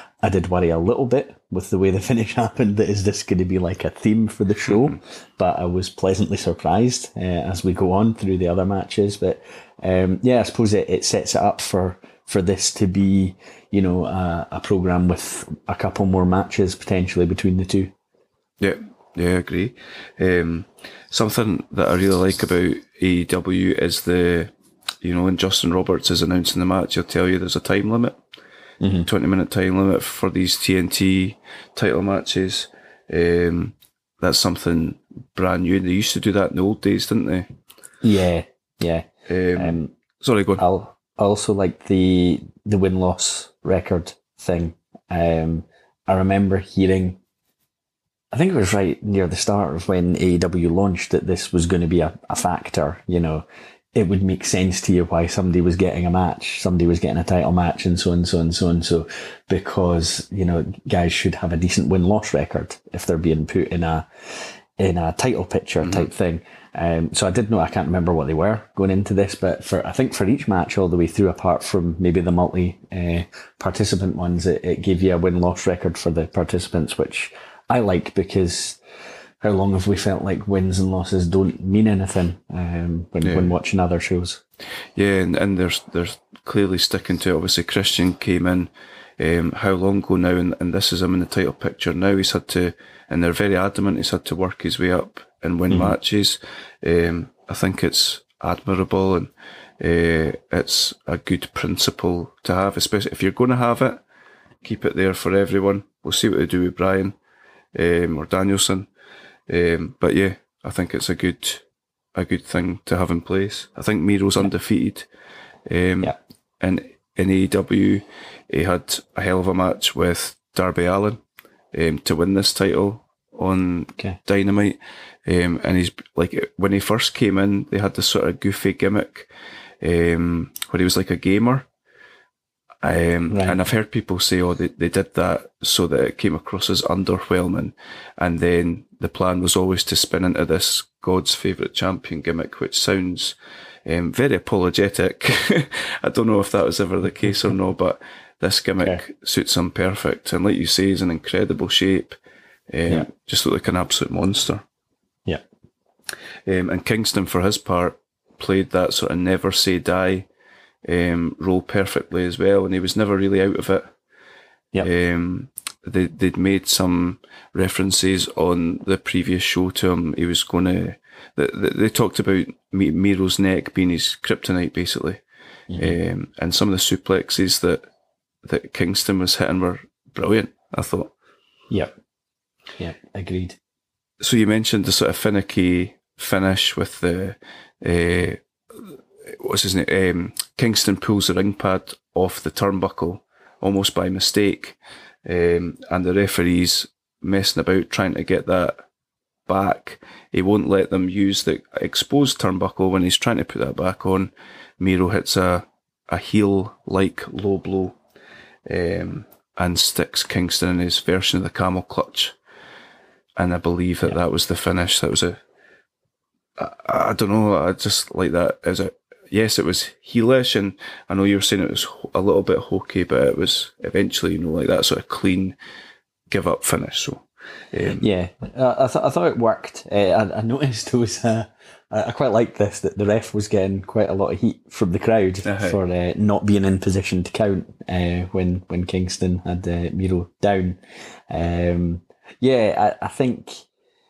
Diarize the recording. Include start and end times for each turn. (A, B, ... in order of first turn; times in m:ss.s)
0:00.2-0:17.9 A
0:18.6-0:24.5 B
0:25.0-0:28.2 B
0:28.8-0:29.1 A
0:29.0-0:37.5 B
0:38.0-0:39.9 A
0:39.3-0:40.6 B
0:40.6-0:47.2 A
0:48.3-1:18.8 A
1:05.8-1:06.1 B
1:19.4-1:24.4 A
1:23.2-1:23.5 B
1:25.0-1:44.0 B
1:35.7-1:36.0 A
1:44.6-1:47.2 B
1:47.8-1:48.9 B
1:49.5-1:51.6 B
1:52.2-1:55.1 B
1:55.7-2:01.2 B
2:01.7-2:09.3 B
2:09.8-2:11.7 B
2:12.8-2:32.2 B
2:13.3-2:13.6 A
2:32.7-2:34.6 B
2:36.5-2:40.3 B
2:40.8-2:43.9 B
2:44.8-2:55.2 B
2:55.7-2:56.0 A
2:55.8-2:57.8 B
2:58.4-3:01.1 B
3:02.8-3:03.6 A
3:04.2-3:18.8 B
3:19.5-3:28.0 B
3:28.7-3:32.4 B
3:33.4-3:35.4 B
3:36.6-3:45.6 B
3:46.3-3:48.1 B
3:48.0-4:03.6 A
3:55.4-3:55.8 B